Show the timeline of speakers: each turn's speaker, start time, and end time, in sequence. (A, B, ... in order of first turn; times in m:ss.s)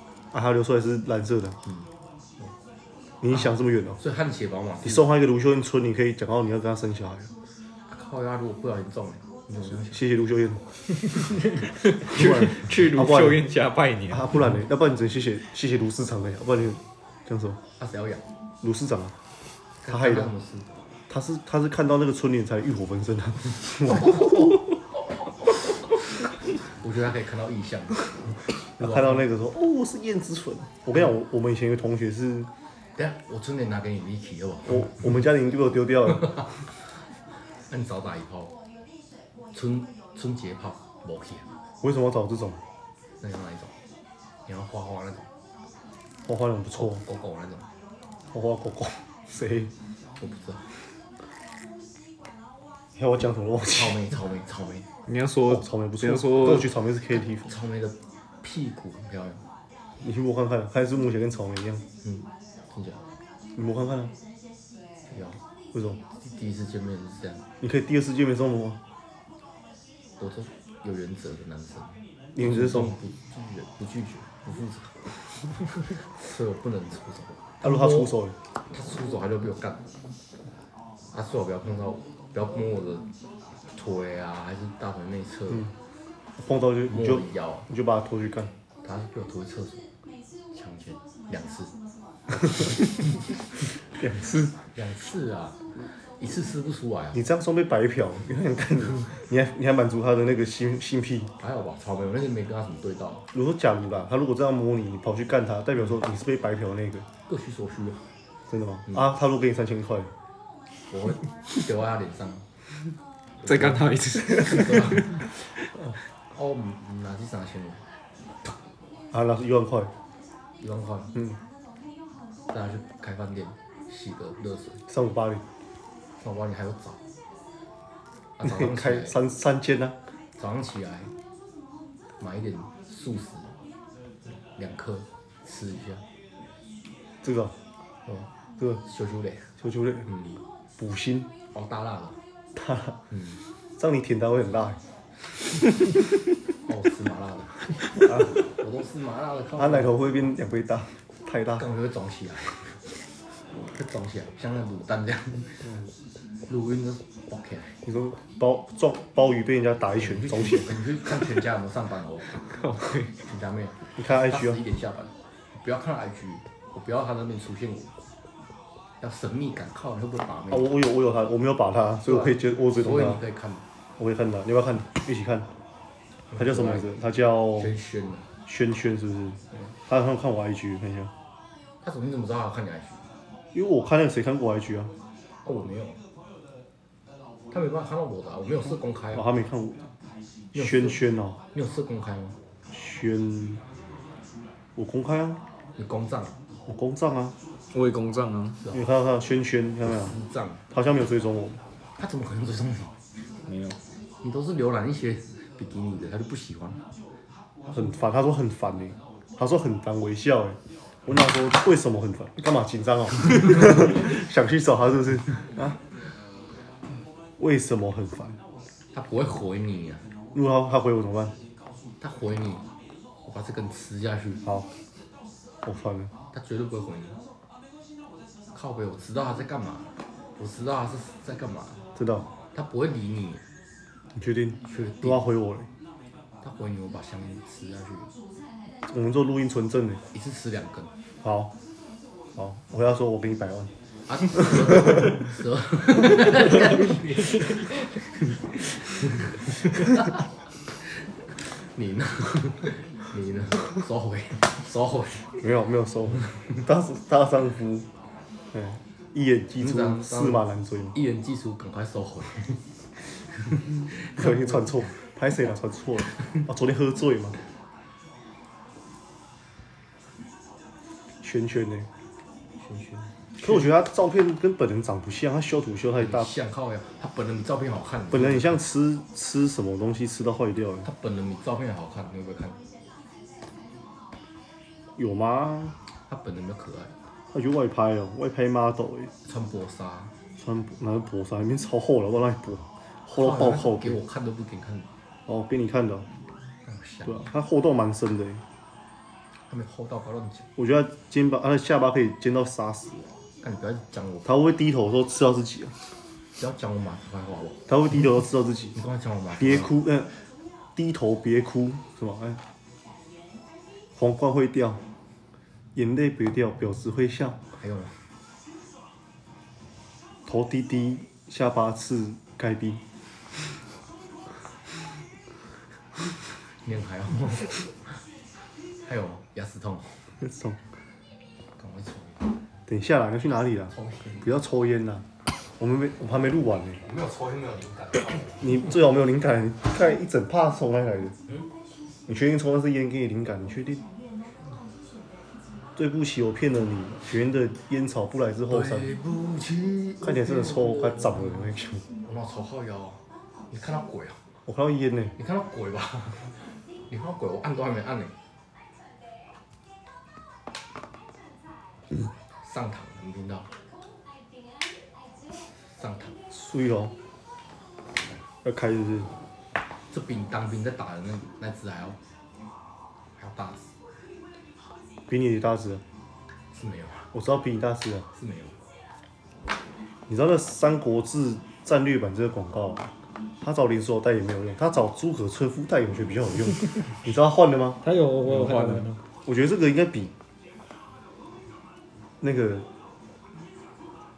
0:00.3-0:01.6 A
0:03.2-0:04.0 A
0:03.3-0:05.1 B
0:04.8-0:07.3 A
0:07.9-0:10.0 B
0:09.9-0:10.6 A
0:11.5-0:14.4 C
0:12.1-0:13.4 A
0:14.1-0:17.6 A
0:17.8-0:18.2 B
0:18.6-0:19.2 A
0:19.8-0:20.7 B
0:19.9-0:20.3 A
0:21.1-0:24.6 A
0:26.6-0:29.3 B
0:28.8-0:32.5 A
0:33.0-0:35.1 B
0:34.7-0:36.4 A
0:37.7-0:38.5 B
0:39.5-0:41.5 B
0:41.8-0:42.6 A
0:43.2-0:43.7 B
0:44.5-0:45.3 B
0:46.3-0:47.0 A
0:46.7-0:47.7 B
0:48.3-0:49.7 A
0:50.2-0:50.7 B
0:53.0-0:54.0 A
0:53.6-0:54.9 B
0:55.1-0:56.7 C
0:55.5-0:57.5 A
0:57.1-0:59.4 B
1:00.0-1:01.8 A
1:02.0-1:03.0 B
1:03.6-1:04.1 A
1:05.1-1:05.4 B
1:05.7-1:06.0 A
1:06.2-1:07.4 B
1:07.6-1:08.8 A
1:10.2-1:18.2 B
1:12.4-1:13.0 A
1:17.6-1:18.4 A
1:18.7-1:19.8 B
1:21.1-1:23.1 B
1:23.7-1:25.7 B
1:26.4-1:28.5 A
1:26.9-1:27.7 B
1:28.8-1:29.8 B
1:30.5-1:31.7 B
1:34.0-1:34.5 A
1:34.6-1:37.2 B
1:37.1-1:41.3 A
1:41.4-1:43.3 B
1:43.3-1:47.1 A
1:47.3-1:48.1 B
1:48.5-1:50.1 A
1:50.9-1:52.5 B
1:53.4-1:55.4 C
1:53.4-1:57.8 B
1:59.1-1:59.9 A
2:00.6-2:01.2 B
2:02.5-2:04.8 B
2:04.9-2:05.4 A
2:06.2-2:07.0 B
2:08.4-2:09.2 B
2:08.4-2:10.0 A
2:10.4-2:11.1 B
2:12.2-2:13.5 B
2:14.6-2:16.0 B
2:17.2-2:17.6 A
2:18.8-2:19.5 B
2:19.6-2:20.1 A
2:20.0-2:20.4 B
2:20.8-2:21.3 A
2:21.5-2:22.2 B
2:22.6-2:23.0 A
2:23.1-2:23.4 B
2:23.8-2:24.8 A
2:26.6-2:30.0 B
2:29.6-2:31.7 A
2:31.6-2:32.9 B
2:33.5-2:35.8 B
2:36.5-2:37.8 B
2:37.8-2:40.8 A
2:39.9-2:42.5 B
2:42.5-2:43.2 C
2:43.2-2:47.9 B
2:44.0-2:44.6 A
2:49.0-2:50.8 B
2:50.5-2:53.2 A
2:52.0-2:53.6 B
2:54.0-2:55.5 A
2:56.3-2:57.0 B
2:56.3-2:57.7 A
2:57.5-2:58.3 B
2:58.5-3:01.1 A
3:01.8-3:03.0 B
3:03.5-3:04.9 A
3:05.4-3:06.0 B
3:07.5-3:09.3 B
3:09.1-3:09.9 A
3:10.5-3:12.4 B
3:10.5-3:11.4 A
3:12.7-3:13.6 A
3:14.8-3:15.4 A
3:15.8-3:16.4 B
3:16.7-3:17.4 A
3:17.7-3:18.6 C
3:18.7-3:20.2 A
3:19.8-3:20.6 B
3:20.7-3:21.6 A
3:22.0-3:22.9 B
3:23.5-3:23.8 C
3:24.2-3:26.8 B
3:27.7-3:35.8 A
3:37.4-3:38.4 A
3:38.9-3:40.0 B
3:40.3-3:41.4 A
3:42.0-3:42.7 B
3:43.2-3:44.4 B
3:45.6-3:46.1 A
3:46.3-3:47.2 B
3:48.5-3:51.8 B
3:52.0-3:52.3 A
3:52.5-3:53.4 B
3:54.2-3:55.7 A
3:54.6-3:55.3 B
3:56.4-3:58.1 B
3:58.9-4:00.0 A
4:00.1-4:00.9 B
4:01.2-4:01.5 A
4:02.4-4:03.7 A
4:04.1-4:10.2 B
4:11.3-4:15.3 B
4:15.4-4:17.9 A
4:18.5-4:21.0 A
4:19.6-4:24.9 B
4:24.2-4:27.4 A
4:31.2-4:31.9 A
4:32.6-4:33.6 B
4:33.4-4:36.3 A
4:35.9-4:38.6 B
4:38.1-4:40.9 A
4:40.8-4:42.6 B
4:45.0-4:45.7 A
4:46.0-4:46.9 B
4:47.3-4:49.1 A
4:49.2-4:50.1 B
4:50.4-4:54.0 A
4:53.1-4:54.9 B
4:55.3-4:56.1 A
4:56.6-4:57.3 B
4:57.0-4:58.4 A
4:59.5-5:00.5 B
5:00.6-5:03.1 A
5:03.4-5:04.3 B
5:04.2-5:05.8 A
5:06.4-5:07.6 B
5:07.7-5:08.8 A
5:08.8-5:09.7 B
5:09.4-5:10.1 A
5:10.8-5:12.4 A
5:14.0-5:14.8 A
5:15.8-5:17.4 A
5:17.5-5:18.0 B
5:20.3-5:22.8 A
5:26.5-5:28.0 B
5:28.8-5:30.0 B
5:30.2-5:30.6 A
5:31.6-5:32.2 B
5:32.7-5:35.0 A
5:33.7-5:34.3 B
5:35.6-5:36.8 A
5:36.8-5:38.7 B
5:38.4-5:41.2 A
5:42.1-5:43.8 A
5:45.8-5:48.9 A
5:48.5-5:54.2 B
5:50.0-5:51.8 A
5:54.5-5:55.2 A
5:55.2-5:58.1 B
6:02.4-6:03.5 B
6:05.8-6:06.2 B
6:06.3-6:06.9 A
6:08.4-6:09.1 A
6:09.9-6:12.0 B
6:13.2-6:13.6 B
6:15.1-6:15.8 A
6:16.5-6:17.1 B
6:17.1-6:18.1 A
6:18.1-6:18.6 B
6:20.1-6:22.9 A
6:23.4-6:27.9 A
6:27.8-6:29.0 C
6:29.2-6:30.1 A
6:32.2-6:32.6 A